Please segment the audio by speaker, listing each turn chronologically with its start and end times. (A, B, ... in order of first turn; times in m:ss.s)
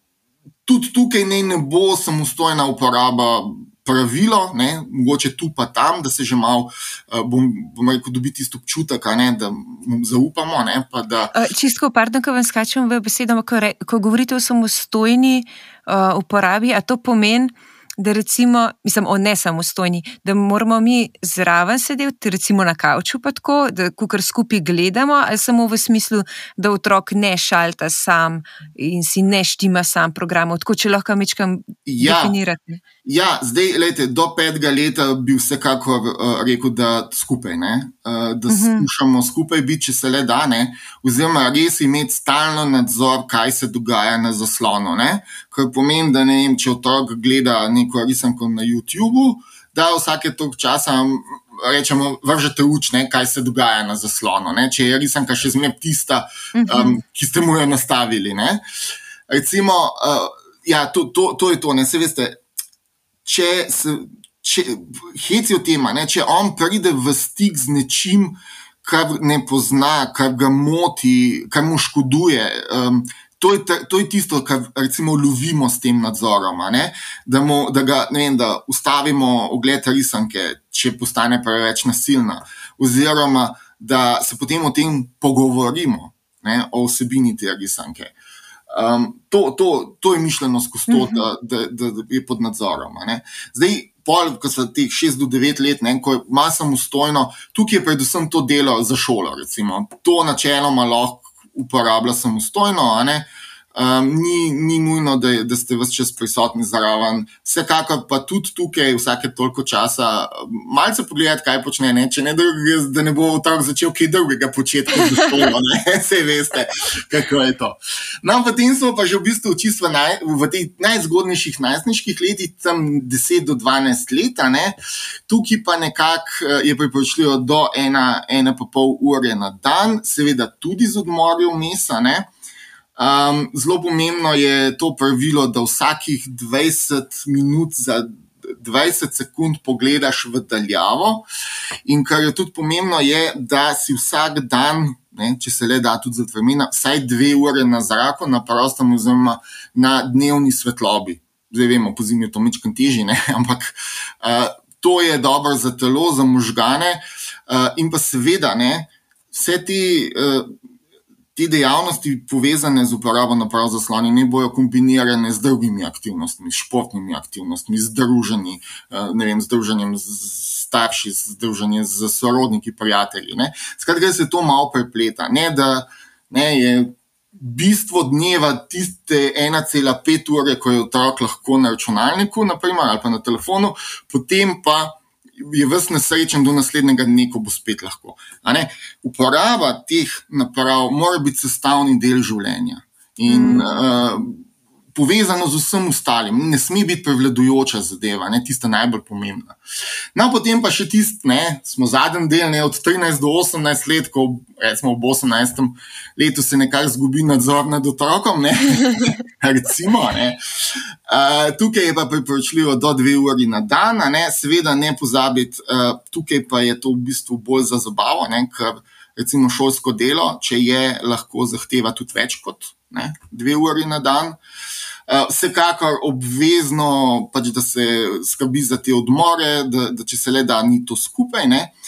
0:00.6-0:11.3 A
0:11.3-0:32.8 B
0:31.8-0:32.3 A
0:33.0-0:58.6 A
0:38.5-0:38.9 B
0:56.5-0:57.0 B
0:59.3-1:02.4 A
1:03.2-1:28.1 A
1:28.7-2:04.8 A
1:30.9-1:31.2 B
2:05.3-2:12.3 A
2:13.0-2:21.2 A
2:21.8-2:40.5 A
2:41.4-3:19.6 A
3:13.3-3:13.8 B
3:20.1-3:44.4 A
3:45.1-3:51.7 A